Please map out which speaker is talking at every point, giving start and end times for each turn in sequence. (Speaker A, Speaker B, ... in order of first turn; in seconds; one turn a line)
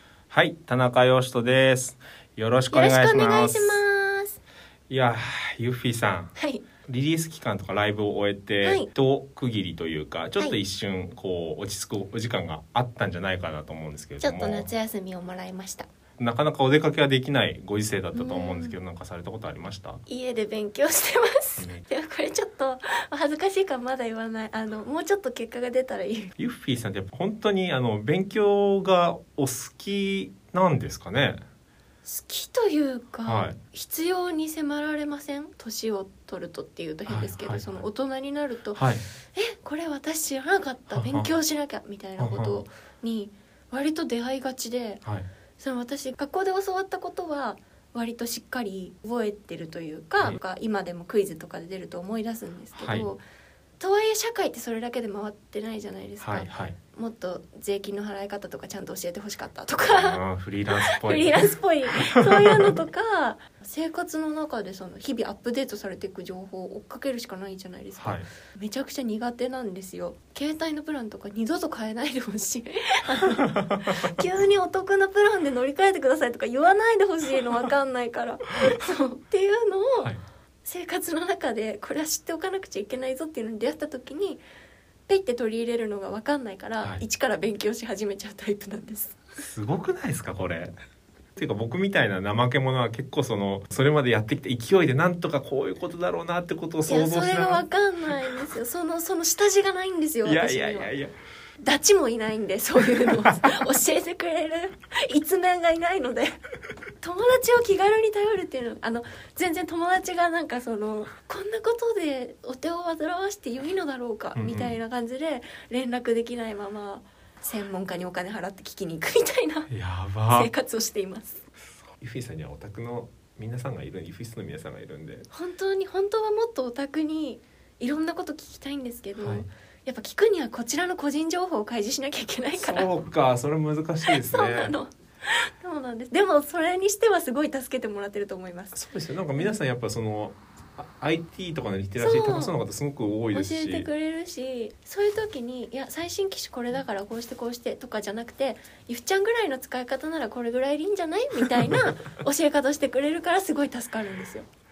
Speaker A: 0.3-3.8
Speaker B: 2.7-4.4
Speaker A: 4.9-6.3
Speaker B: 6.3-6.6
Speaker A: 6.8-14.7
Speaker B: 8.6-8.9
Speaker B: 14.2-15.9
Speaker A: 16.2-20.0
Speaker B: 18.1-18.8
Speaker B: 20.1-26.3
Speaker A: 21.6-21.8
Speaker A: 26.4-31.4
Speaker B: 32.0-45.0
Speaker A: 33.2-33.5
Speaker A: 37.1-37.8
Speaker A: 38.7-39.0
Speaker A: 40.9-41.3
Speaker A: 42.2-42.6
Speaker B: 45.6-53.2
Speaker A: 52.8-53.1
Speaker B: 53.8-60.2
Speaker A: 56.2-56.8
Speaker A: 59.9-61.5
Speaker B: 60.8-80.1
Speaker A: 62.0-62.7
Speaker A: 68.0-68.3
Speaker A: 73.2-74.1
Speaker B: 80.6-84.4
Speaker B: 85.1-89.2
Speaker A: 89.4-90.7
Speaker A: 91.3-97.6
Speaker B: 96.9-100.9
Speaker A: 100.2-101.1
Speaker B: 101.6-106.4
Speaker B: 107.0-119.7
Speaker A: 114.3-114.7
Speaker A: 119.7-120.5
Speaker B: 120.3-121.4
Speaker A: 122.0-125.3
Speaker B: 125.3-132.9
Speaker A: 129.2-129.5
Speaker A: 132.6-134.7
Speaker B: 134.1-138.8
Speaker A: 138.7-143.9
Speaker B: 142.0-142.5
Speaker B: 143.3-154.5